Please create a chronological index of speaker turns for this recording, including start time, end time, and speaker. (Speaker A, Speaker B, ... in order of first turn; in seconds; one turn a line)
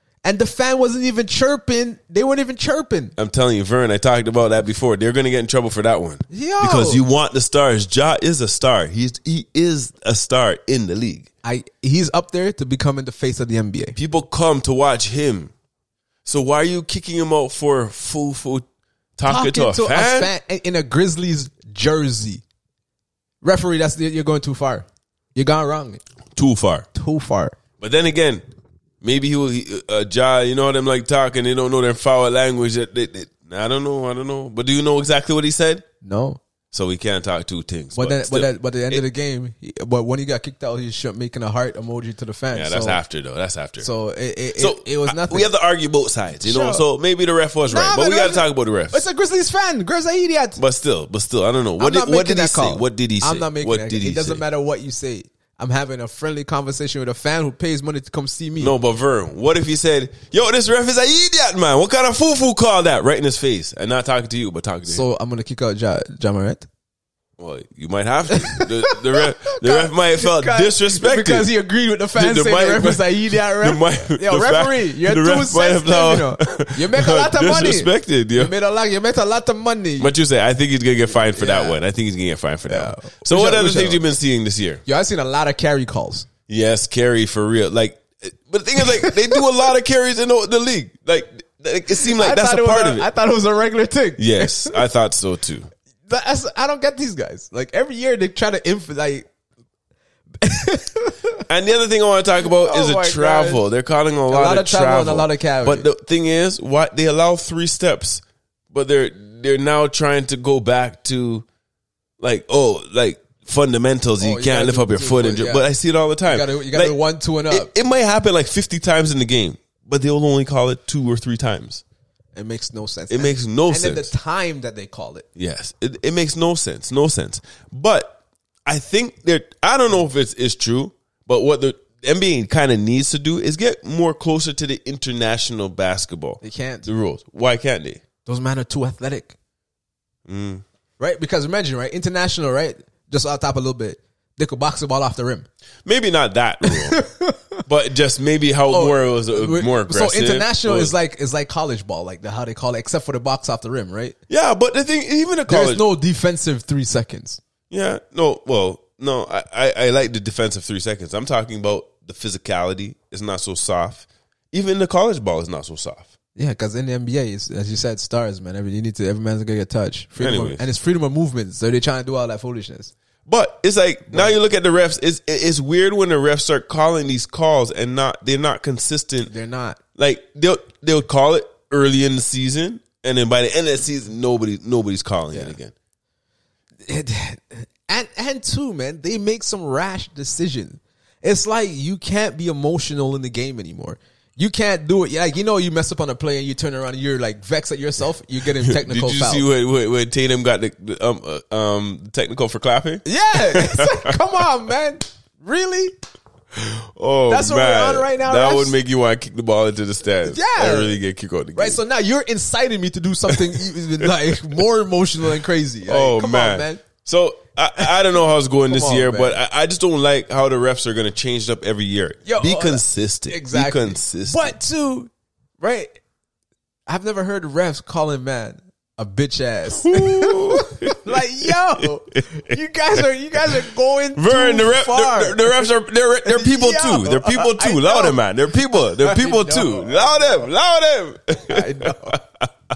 Speaker A: 0.2-3.1
Speaker B: 3.2-11.3
Speaker A: 6.3-7.0
Speaker A: 11.4-13.9
Speaker B: 13.9-15.5
Speaker B: 16.2-18.6
Speaker B: 19.2-20.3
Speaker A: 19.2-22.4
Speaker A: 23.4-26.0
Speaker B: 26.4-26.9
Speaker A: 26.9-27.6
Speaker B: 27.8-28.4
Speaker B: 29.0-35.8
Speaker A: 36.0-36.4
Speaker B: 36.7-39.0
Speaker A: 37.9-43.0
Speaker B: 42.5-43.9
Speaker A: 43.8-45.5
Speaker B: 44.5-49.0
Speaker A: 46.3-46.8
Speaker A: 47.7-50.6
Speaker B: 50.6-54.4
Speaker A: 51.8-58.7
Speaker B: 58.6-65.0
Speaker A: 64.8-66.7
Speaker B: 67.4-71.5
Speaker A: 68.3-80.1
Speaker B: 72.1-78.5
Speaker B: 80.0-84.8
Speaker A: 81.3-81.8
Speaker A: 82.7-84.0
Speaker A: 84.8-86.3
Speaker B: 86.5-93.1
Speaker A: 91.9-94.8
Speaker B: 94.2-95.7
Speaker A: 96.1-99.3
Speaker A: 100.4-101.4
Speaker B: 101.5-111.4
Speaker A: 102.4-103.6
Speaker A: 104.3-105.9
Speaker B: 112.2-117.0
Speaker A: 114.2-115.7
Speaker A: 116.2-117.7
Speaker B: 117.5-121.8
Speaker A: 122.3-125.2
Speaker B: 123.1-124.1
Speaker B: 125.3-138.0
Speaker A: 136.4-136.9
Speaker A: 138.2-139.3
Speaker B: 140.3-140.6
Speaker A: 141.0-145.4
Speaker B: 145.8-147.0
Speaker A: 146.7-147.4
Speaker B: 147.7-150.9
Speaker A: 148.7-154.2
Speaker B: 154.3-155.8
Speaker A: 155.5-157.4
Speaker B: 157.7-166.1
Speaker A: 166.3-172.9
Speaker B: 170.2-170.7
Speaker B: 173.2-179.3
Speaker A: 174.1-174.3
Speaker A: 179.2-179.8
Speaker B: 179.9-185.7
Speaker A: 186.8-199.4
Speaker B: 198.6-204.2
Speaker A: 203.0-205.9
Speaker B: 206.5-211.8
Speaker A: 207.3-208.8
Speaker A: 210.2-211.0
Speaker A: 211.5-216.8
Speaker B: 213.3-214.3
Speaker B: 215.8-224.5
Speaker A: 218.6-219.4
Speaker A: 222.2-226.0
Speaker A: 226.9-235.7
Speaker B: 229.8-233.6
Speaker B: 234.1-242.5
Speaker A: 236.2-240.4
Speaker A: 241.5-242.2